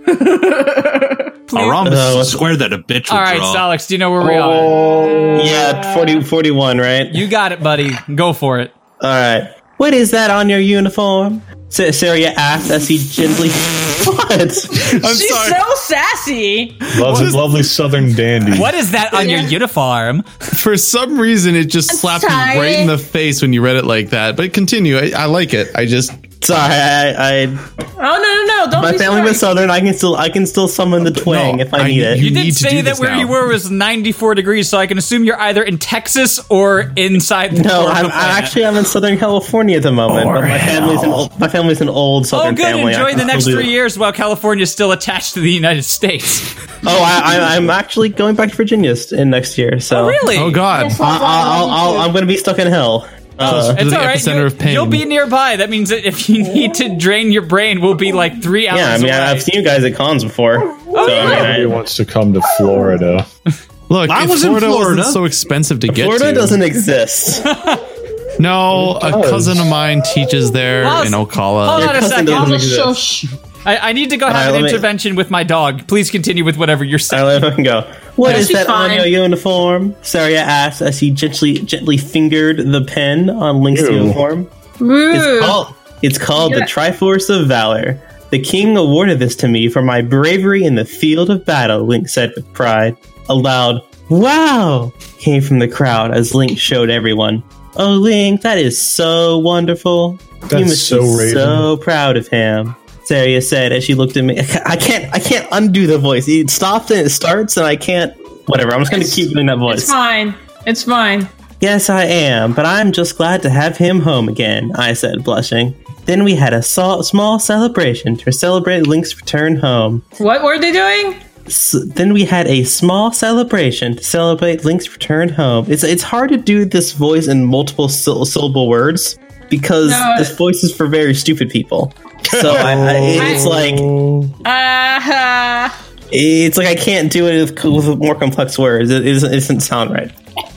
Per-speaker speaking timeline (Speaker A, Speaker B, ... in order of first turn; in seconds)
Speaker A: 0.1-1.3, 5.7-6.2, 14.8-16.9, 19.1-19.5, 21.9-22.9, 28.0-29.5, 50.7-52.1, 72.2-73.3, 78.2-79.1, 84.8-85.6, 86.4-86.7, 108.9-111.3, 120.2-121.2, 129.8-130.3, 133.2-133.6, 134.4-135.7
Speaker B: 1.5-1.9, 3.1-4.8, 7.1-8.7, 18.5-20.2, 32.1-38.5, 42.3-46.5, 49.9-50.6, 53.4-59.5, 60.9-61.5, 67.5-67.8, 70.8-72.6, 73.7-77.4
Speaker C: 1.5-3.7, 64.1-65.2
Speaker D: 1.8-2.5, 5.4-7.2, 9.0-14.9, 26.4-27.6, 28.7-32.2, 37.5-43.7, 46.8-50.2, 51.0-53.8, 58.7-61.8, 65.9-67.5, 71.7-73.0, 74.3-74.9, 77.1-84.5, 85.1-110.0, 111.6-120.0, 121.5-133.9, 136.1-140.1
Speaker E: 4.3-5.3, 16.9-18.7, 61.0-63.3, 68.8-69.7, 83.7-84.2, 100.5-101.7, 132.3-134.3
Speaker F: 14.9-15.6, 16.9-17.4, 20.5-26.3, 31.1-33.4, 40.2-40.9, 50.3-51.0, 53.4-55.1, 63.9-66.6, 68.4-72.0